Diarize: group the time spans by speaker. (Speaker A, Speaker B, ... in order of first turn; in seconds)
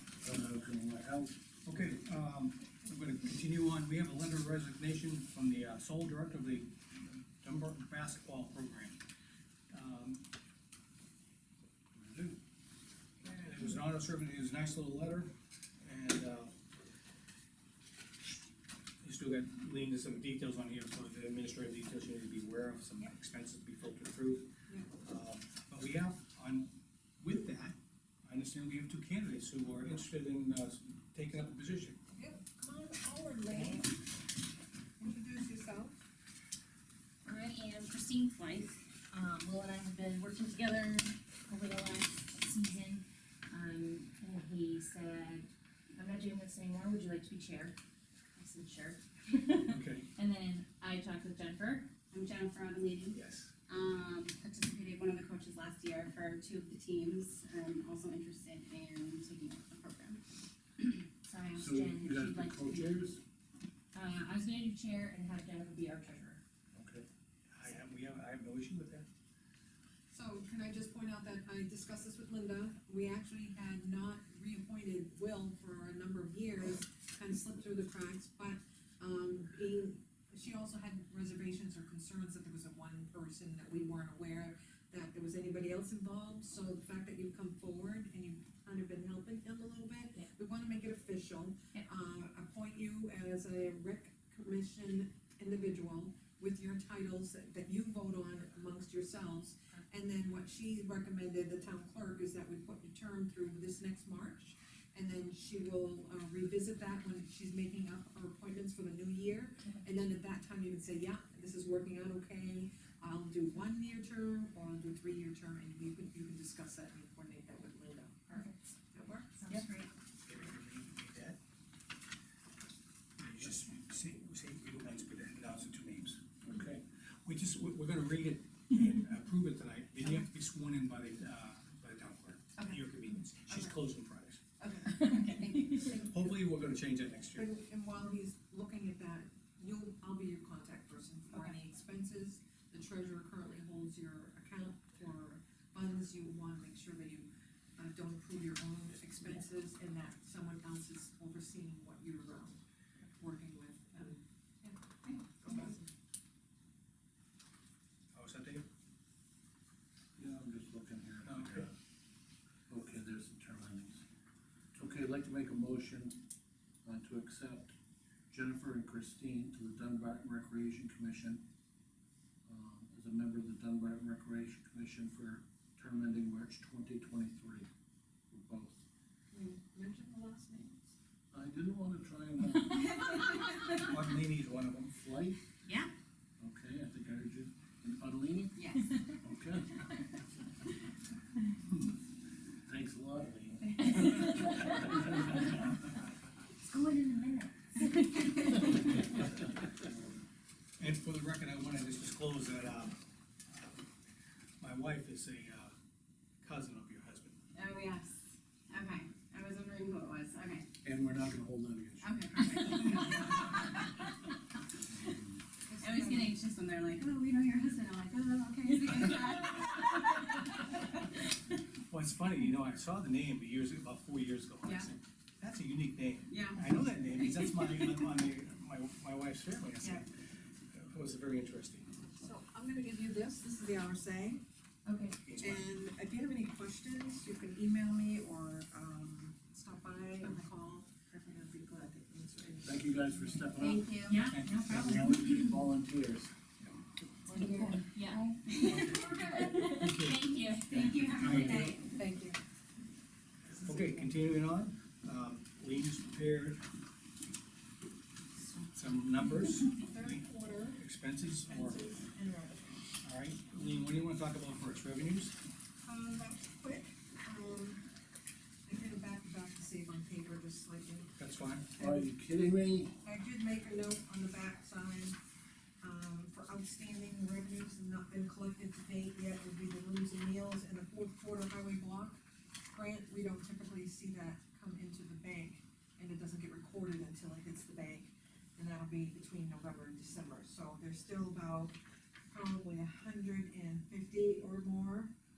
Speaker A: 0.2-1.4, 11.9-12.4, 61.5-63.2, 66.7-67.0, 126.5-126.8, 160.2-161.7, 162.7-164.0, 164.8-166.2, 166.8-167.7, 168.3-171.4, 172.5-177.7, 178.3-178.8, 181.3-183.1, 184.9-185.4, 186.4-189.9, 192.7-194.1, 210.8-212.7, 242.6-246.3, 271.8-272.9
Speaker B: 1.6-9.0, 9.7-10.2, 13.2-16.5, 19.0-32.0, 33.5-33.8, 49.6-50.1, 53.1-53.5, 67.5-69.1, 120.2-121.4, 123.2-134.4, 135.8-137.5, 158.1-158.7, 161.2-161.7, 183.7-184.9, 200.8-203.0, 203.5-203.8, 204.6-205.7, 206.4-207.4, 221.9-230.1, 230.7-231.9, 235.2-235.7, 244.3-245.1, 248.6-251.8, 253.6-256.6, 258.7-261.8, 263.0-265.4, 271.2-271.7
Speaker C: 32.1-34.0, 35.0-36.0, 70.1-119.7, 134.6-136.4, 137.3-152.6, 153.2-155.8, 179.3-180.9, 215.7-216.4, 218.6-219.0, 232.2-234.4, 235.4-243.5, 247.4-247.7, 251.2-252.4, 253.5-254.1, 259.7-260.8, 261.5-262.8, 265.8-267.8, 268.7-271.1, 271.8-272.1, 273.0-275.2, 275.8-291.8, 292.3-295.1
Speaker D: 37.2-47.8, 48.4-51.9, 61.3-62.9, 63.9-66.4, 118.3-118.7, 119.4-119.9, 134.9-136.0, 185.7-185.9, 194.1-194.7, 196.6-198.7, 234.9-235.2, 244.1-245.2, 247.3-250.8
Speaker E: 52.1-60.2, 60.8-61.1, 183.0-183.2, 188.6-188.9, 193.9-194.2, 198.1-198.7, 207.5-210.7, 212.0-214.0, 215.8-220.9, 226.3-228.0, 243.6-244.2, 247.3-247.8, 248.5-249.4, 250.7-251.8